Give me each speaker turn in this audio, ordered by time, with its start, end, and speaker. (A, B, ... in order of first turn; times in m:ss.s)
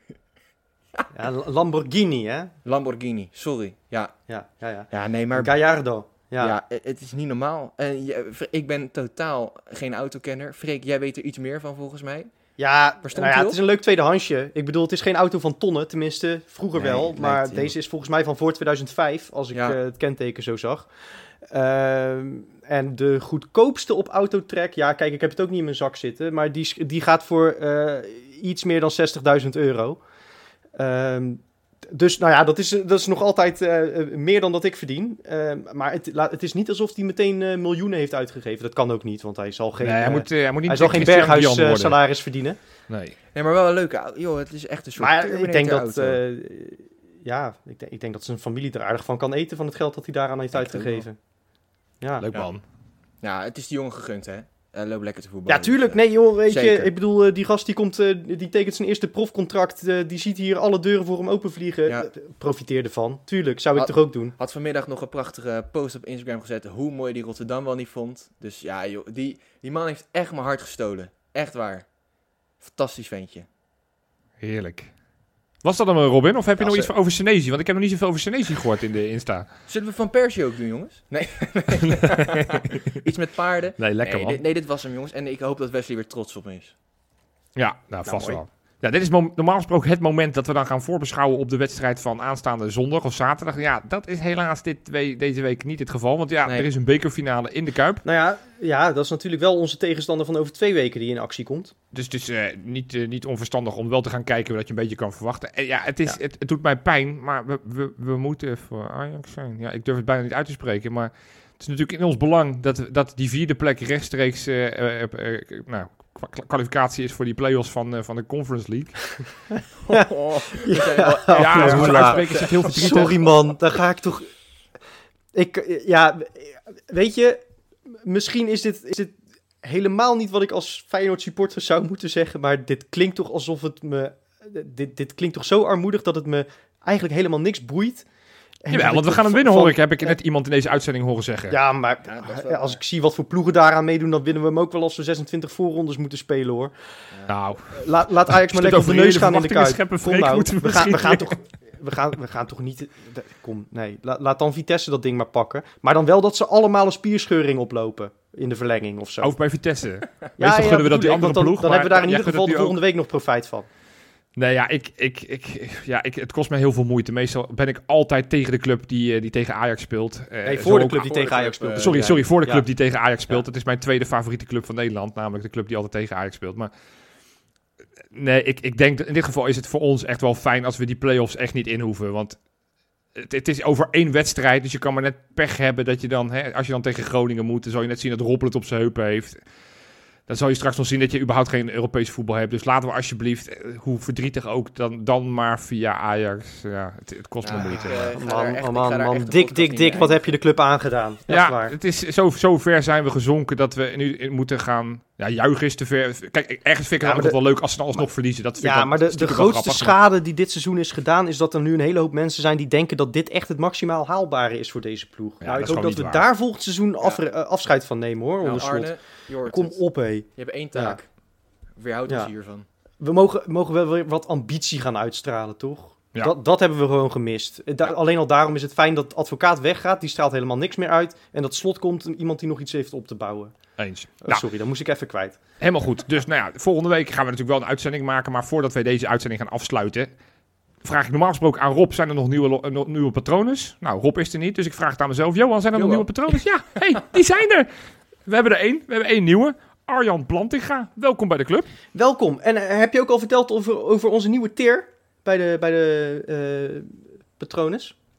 0:01.1-0:02.5 A
0:02.6-0:04.2 B
0:04.3-0:06.5 A
0:04.9-0:05.5 B
0:06.4-0:12.3 B
0:12.6-0:20.9 A
0:13.0-0:13.6 B
0:16.7-0:17.7 B
0:19.5-0:19.8 B
0:21.5-0:30.0 A
0:30.8-0:42.6 A
0:39.8-0:42.0 C
0:42.9-0:43.1 C
0:43.3-0:46.2 B
0:45.0-0:51.2 A
0:50.5-0:51.0 B
0:52.0-0:52.3 A
0:52.2-0:52.6 C
0:53.2-0:56.9 B
0:55.5-1:04.3 A
1:03.7-1:11.9 B
1:12.6-1:13.5 B
1:14.4-1:14.9 C
1:15.6-1:19.5 C
1:16.6-1:16.9 B
1:19.7-1:26.7 B
1:21.9-1:22.6 C
1:23.8-1:24.4 C
1:27.6-1:38.0 C
1:28.0-1:28.4 A
1:38.0-1:41.7 A
1:41.9-1:59.4 C
1:59.8-2:03.1 B
1:59.9-2:04.3 A
2:01.3-2:03.2 C
2:05.3-2:07.4 A
2:08.0-2:18.0 A
2:18.6-2:20.2 A
2:18.7-2:21.6 C
2:21.5-2:26.7 A
2:22.0-2:22.8 B
2:27.3-2:31.4 C
2:27.7-2:39.3 A
2:39.2-2:42.8 C
2:40.4-2:43.7 A
2:44.4-2:56.7 C
2:50.4-2:52.7 A
2:50.9-2:52.2 B
2:58.1-3:02.4 C
3:03.1-3:09.4 C
3:10.3-3:18.1 C
3:17.4-3:20.4 B
3:17.5-3:21.8 A
3:21.3-3:30.0 C
3:27.0-3:27.4 A
3:28.6-3:41.0 A
3:35.4-3:36.2 C
3:38.4-3:41.1 B
3:41.8-3:42.7 B
3:42.1-3:42.3 A
3:43.0-3:53.7 A
3:53.8-3:54.4 C
3:54.2-3:55.4 A
3:55.6-4:00.1 C
4:00.8-4:07.7 C
4:05.7-4:06.4 B
4:08.2-4:11.7 C
4:11.9-4:18.0 A